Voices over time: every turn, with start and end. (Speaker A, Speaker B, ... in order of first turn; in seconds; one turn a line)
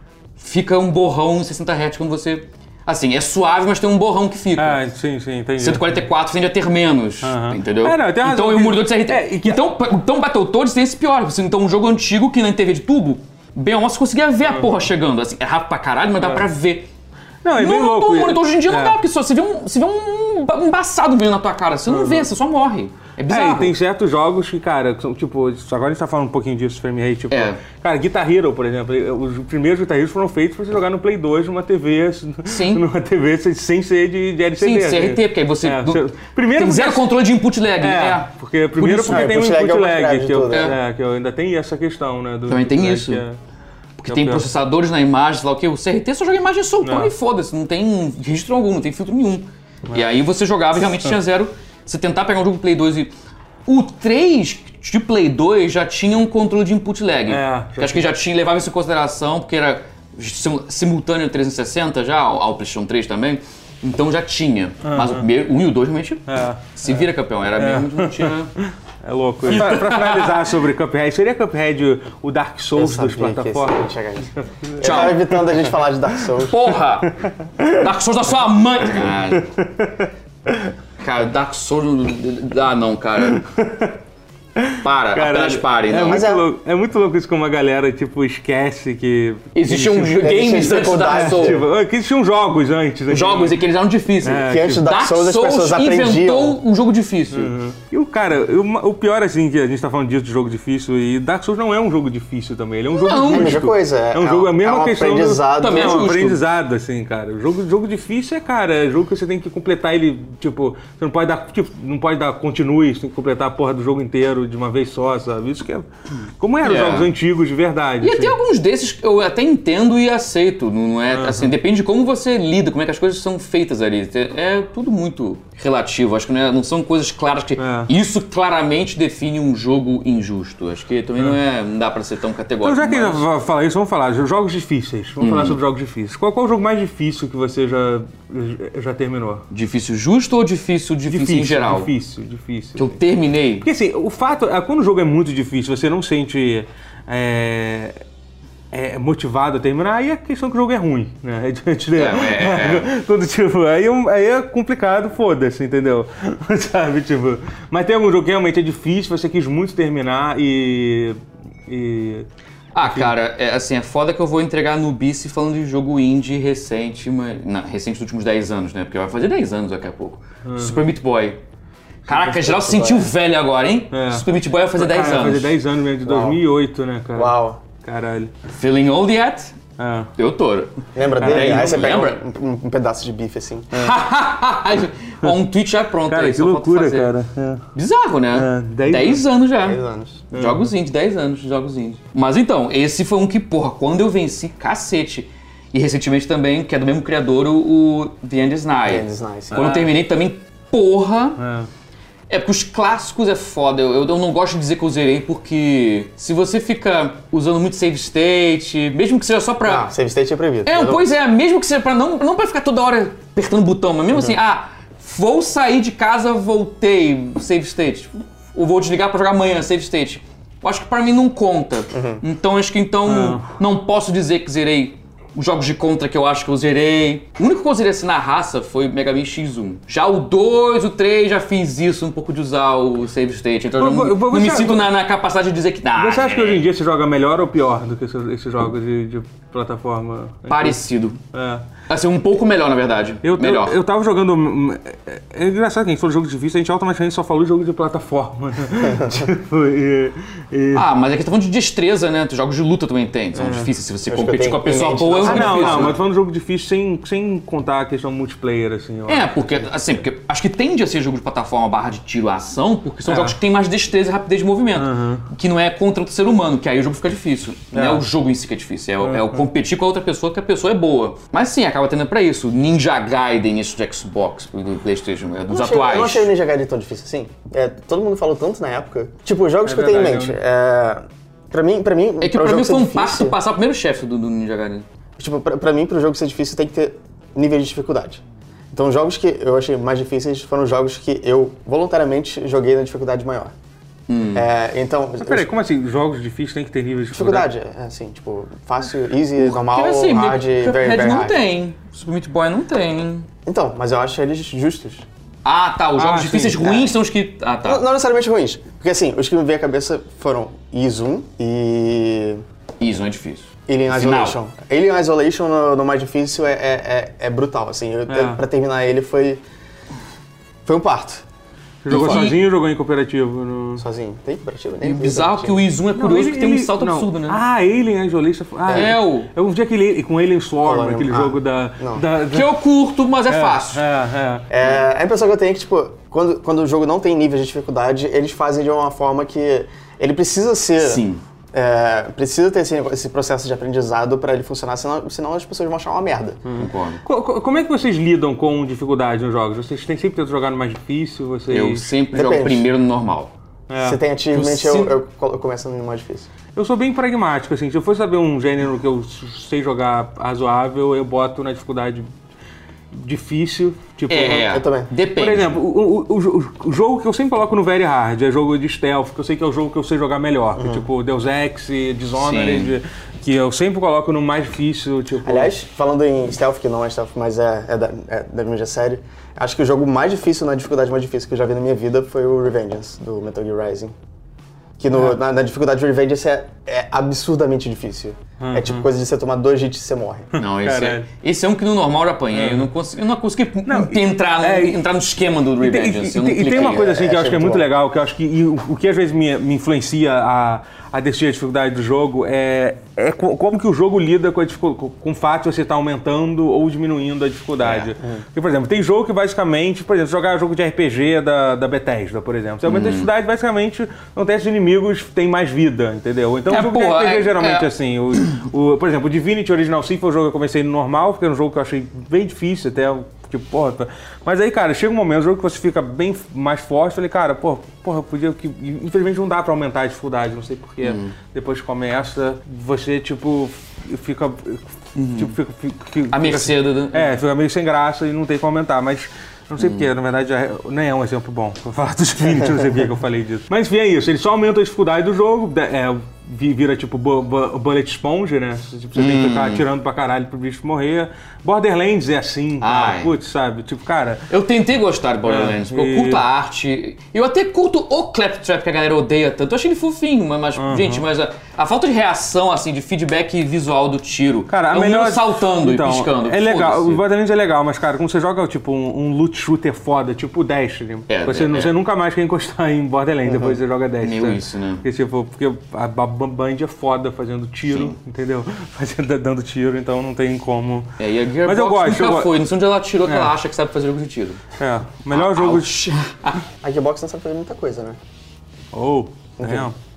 Speaker A: 0.4-4.8
Speaker B: 4.5-6.0
Speaker A: 5.6-16.9
Speaker B: 7.2-9.6
Speaker B: 14.4-14.7
Speaker B: 17.4-19.0
Speaker A: 17.5-23.8
Speaker B: 21.9-22.3
Speaker B: 23.3-37.1
Speaker A: 27.3-27.6
Speaker A: 32.5-32.8
Speaker A: 34.6-39.4
Speaker B: 37.8-43.4
Speaker C: 39.1-40.7
Speaker A: 40.5-40.7
Speaker A: 42.5-43.2
Speaker A: 44.0-53.1
Speaker B: 44.1-44.5
Speaker B: 46.8-47.1
Speaker A: 53.6-68.5
Speaker B: 57.3-58.1
Speaker B: 64.8-65.3
Speaker B: 66.3-73.8
Speaker A: 69.4-70.4
Speaker C: 72.7-76.5
Speaker B: 74.3-75.7
Speaker A: 74.8-75.2
Speaker A: 76.4-77.2
Speaker B: 77.0-77.9
Speaker A: 77.7-79.5
Speaker B: 79.0-80.7
Speaker A: 81.0-83.4
Speaker B: 83.2-83.9
Speaker B: 84.5-90.3
Speaker A: 84.8-86.3
Speaker C: 86.0-86.4
Speaker A: 89.5-91.6
Speaker C: 90.0-91.6
Speaker B: 91.1-93.5
Speaker A: 93.1-97.5
Speaker B: 94.2-94.9
Speaker C: 94.2-96.6
Speaker B: 97.3-115.9
Speaker A: 102.9-103.7
Speaker C: 103.2-106.3
Speaker A: 105.6-106.4
Speaker B: 116.4-118.3
Speaker A: 116.6-117.1
Speaker A: 118.0-133.2
Speaker B: 121.1-121.5
Speaker B: 127.6-127.9
Speaker B: 132.6-139.4
Speaker A: 135.2-135.6
Speaker A: 139.5-141.9
Speaker B: 141.1-143.0
Speaker A: 142.8-143.7
Speaker B: 143.6-148.0
Speaker B: 148.7-162.3
Speaker A: 151.9-152.9
Speaker A: 162.7-171.4
Speaker B: 162.8-163.1
Speaker B: 170.4-170.9
Speaker A: 172.0-175.6
Speaker C: 172.1-173.1
Speaker B: 173.9-178.3
Speaker C: 176.0-176.4
Speaker C: 177.1-177.6
Speaker A: 178.5-179.6
Speaker B: 179.8-180.1
Speaker A: 180.2-182.2
Speaker C: 180.9-183.9
Speaker B: 181.2-182.0
Speaker A: 183.7-187.1
Speaker B: 186.1-187.6
Speaker A: 187.7-189.8
Speaker B: 188.3-189.2
Speaker C: 189.6-190.2
Speaker A: 190.3-201.4
Speaker B: 190.3-190.7
Speaker C: 198.8-199.8
Speaker B: 199.5-199.9
Speaker B: 201.4-201.7
Speaker A: 202.3-209.9
Speaker C: 209.6-211.0
Speaker A: 210.7-236.7
Speaker C: 221.9-222.2
Speaker B: 223.1-223.4
Speaker B: 233.8-234.9
Speaker B: 236.0-240.8
Speaker A: 240.5-241.2
Speaker B: 241.3-241.7
Speaker A: 241.9-243.8
Speaker B: 243.2-250.9
Speaker A: 250.7-256.0
Speaker C: 254.1-256.0
Speaker B: 255.2-259.7
Speaker A: 259.1-276.3
Speaker B: 263.1-263.4
Speaker B: 264.7-265.2
Speaker B: 267.7-268.0
Speaker B: 269.0-269.4
Speaker C: 275.5-283.3
Speaker B: 279.6-280.4
Speaker A: 282.2-284.9
Speaker C: 285.2-288.2
Speaker C: 288.7-293.5
Speaker A: 294.1-294.5
Speaker C: 294.3-295.5
Speaker B: 295.2-297.5
Speaker C: 297.1-301.4
Speaker A: 299.4-303.3
Speaker C: 303.4-305.0
Speaker A: 305.4-307.8
Speaker B: 306.0-306.6
Speaker C: 306.5-306.9
Speaker C: 307.6-312.4
Speaker A: 312.8-314.4
Speaker C: 313.7-319.4
Speaker B: 318.1-318.4
Speaker C: 320.6-321.2
Speaker B: 321.8-323.8
Speaker A: 321.9-322.4
Speaker C: 323.8-325.6
Speaker A: 324.8-327.4
Speaker B: 325.9-332.5
Speaker C: 328.7-328.9
Speaker A: 328.7-329.3
Speaker C: 330.6-332.0
Speaker A: 332.3-333.8
Speaker B: 333.3-334.5
Speaker C: 334.5-346.4
Speaker A: 340.8-341.2
Speaker B: 346.4-351.9
Speaker A: 346.6-347.0
Speaker A: 351.5-353.3
Speaker C: 352.1-352.7
Speaker B: 353.7-354.0
Speaker C: 353.8-356.3
Speaker A: 354.3-354.9
Speaker B: 356.5-362.1
Speaker B: 362.9-364.5
Speaker A: 364.1-365.5
Speaker C: 364.3-364.9
Speaker B: 365.1-375.5
Speaker C: 370.6-370.8
Speaker A: 372.1-372.7
Speaker C: 375.2-383.9
Speaker C: 384.8-390.3
Speaker B: 388.4-388.9
Speaker B: 390.3-391.1
Speaker A: 390.4-396.9
Speaker B: 392.3-392.7
Speaker B: 393.6-394.8
Speaker B: 395.6-454.3
Speaker C: 396.4-397.6
Speaker A: 407.6-407.9
Speaker A: 412.6-413.1
Speaker A: 416.5-417.7
Speaker A: 430.8-431.1
Speaker A: 434.9-435.3
Speaker A: 436.1-437.1
Speaker A: 439.6-439.8
Speaker A: 448.9-449.6
Speaker A: 452.6-453.1
Speaker A: 454.3-467.0
Speaker B: 455.2-456.2
Speaker B: 460.6-461.0
Speaker B: 464.5-480.9
Speaker A: 471.1-471.7
Speaker C: 473.2-473.6
Speaker A: 474.0-474.8
Speaker A: 477.7-477.9
Speaker A: 481.0-484.4
Speaker B: 481.4-482.4
Speaker B: 483.0-483.3
Speaker B: 484.6-485.8
Speaker A: 485.1-486.4
Speaker C: 486.6-488.0
Speaker B: 488.7-489.8
Speaker C: 489.4-489.7